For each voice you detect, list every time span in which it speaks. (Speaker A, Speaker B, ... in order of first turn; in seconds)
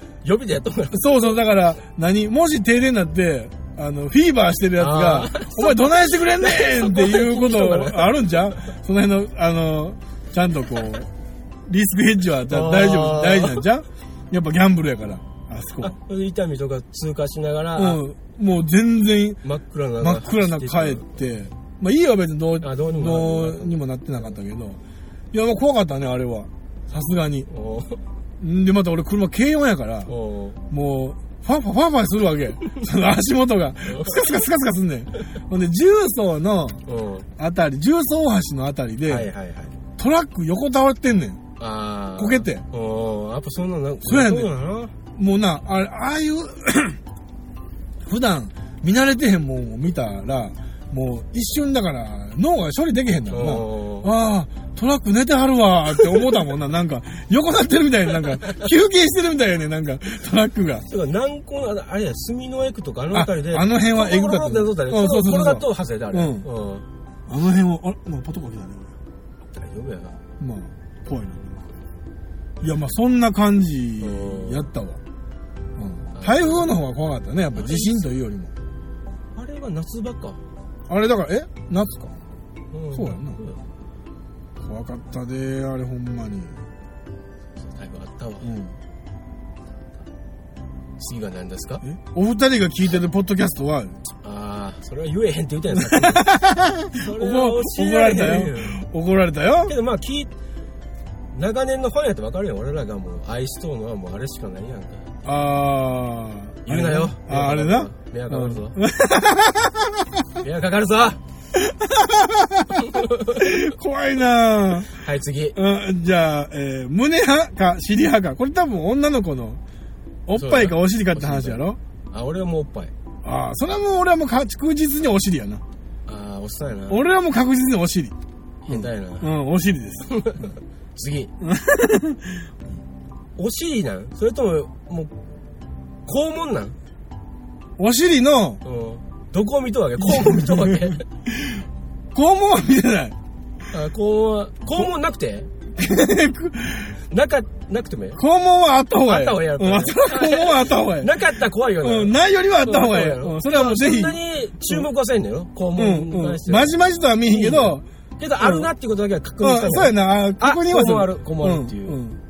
Speaker A: 0.2-1.0, 4.8-8.3, 12.5-13.7, 15.8-18.0, 19.4-21.2, 22.6-23.8, 27.5-28.0, 30.1-30.6, 33.9-34.3, 36.9-37.3, 39.0-39.7, 41.6-44.9, 53.3-54.1, 60.9-66.8, 69.5-70.2, 74.0-74.7, 76.1-76.7, 77.5-78.1, 79.3-80.4, 82.7-83.6, 87.6-88.5, 91.0-91.8, 94.2-96.3, 96.9-98.8, 99.7-100.3, 101.3-105.1, 106.6-108.8, 110.4-111.2, 112.7-113.5, 114.9-115.6, 120.3-122.9, 126.1-127.0, 128.7-129.3, 130.0-131.3, 133.4-135.1, 136.1-136.8, 138.6-141.0, 143.7-145.5, 147.1-148.2, 149.0-156.8, 157.3-162.0
Speaker B: 0.9-11.1, 11.7-15.9, 17.8-19.4, 20.0-24.8, 25.3-27.5, 28.4-30.1, 30.7-36.8, 37.4-39.3, 40.0-41.4, 42.2-42.6, 44.0-44.5, 45.1-47.0, 48.0-60.9, 63.1-66.5, 67.3-68.9, 70.4-71.7, 72.6-75.0, 75.8-78.5, 80.9-82.2, 82.9-83.4, 84.6-86.6, 88.4-88.7, 91.8-94.0, 95.7-99.7, 105.2-110.3, 111.5-114.9, 115.5-119.6, 120.3-121.8, 123.2-125.6, 126.9-128.1, 128.7-130.1, 131.4-132.4, 137.8-138.6, 140.0-143.1, 145.8-146.9, 148.2-151.1, 151.8-154.8, 155.8-157.8, 158.4-158.7, 159.4-162.2